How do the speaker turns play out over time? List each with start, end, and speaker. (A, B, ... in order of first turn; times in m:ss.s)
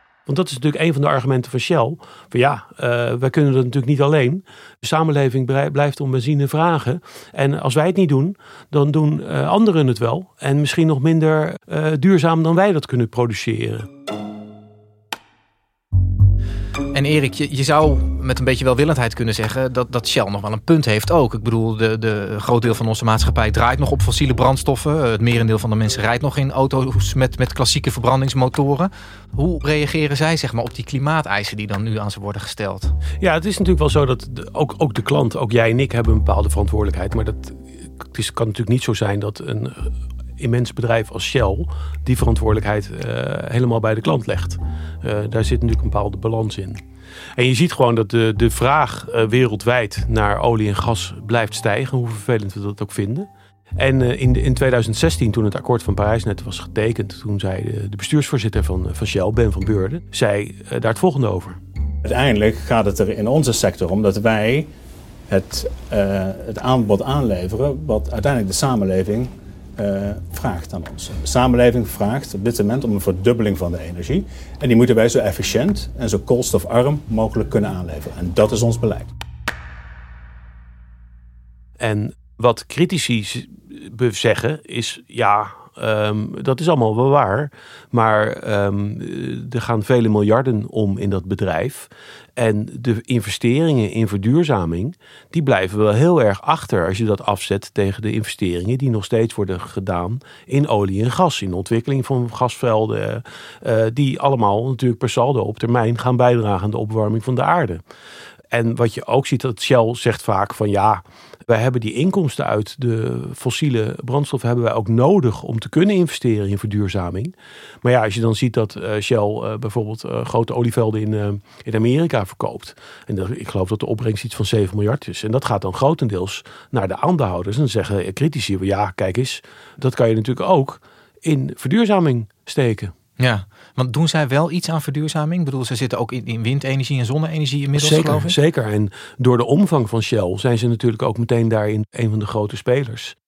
0:00.3-0:13.9 A
0:16.9-0:32.9 B
0:33.2-0:46.8 A
0:47.4-1:01.6 A
1:02.0-1:04.7 C
1:05.3-1:19.1 C
1:21.8-1:47.8 A
1:48.5-2:12.9 A
2:13.2-2:18.4 B
2:17.8-2:23.2 A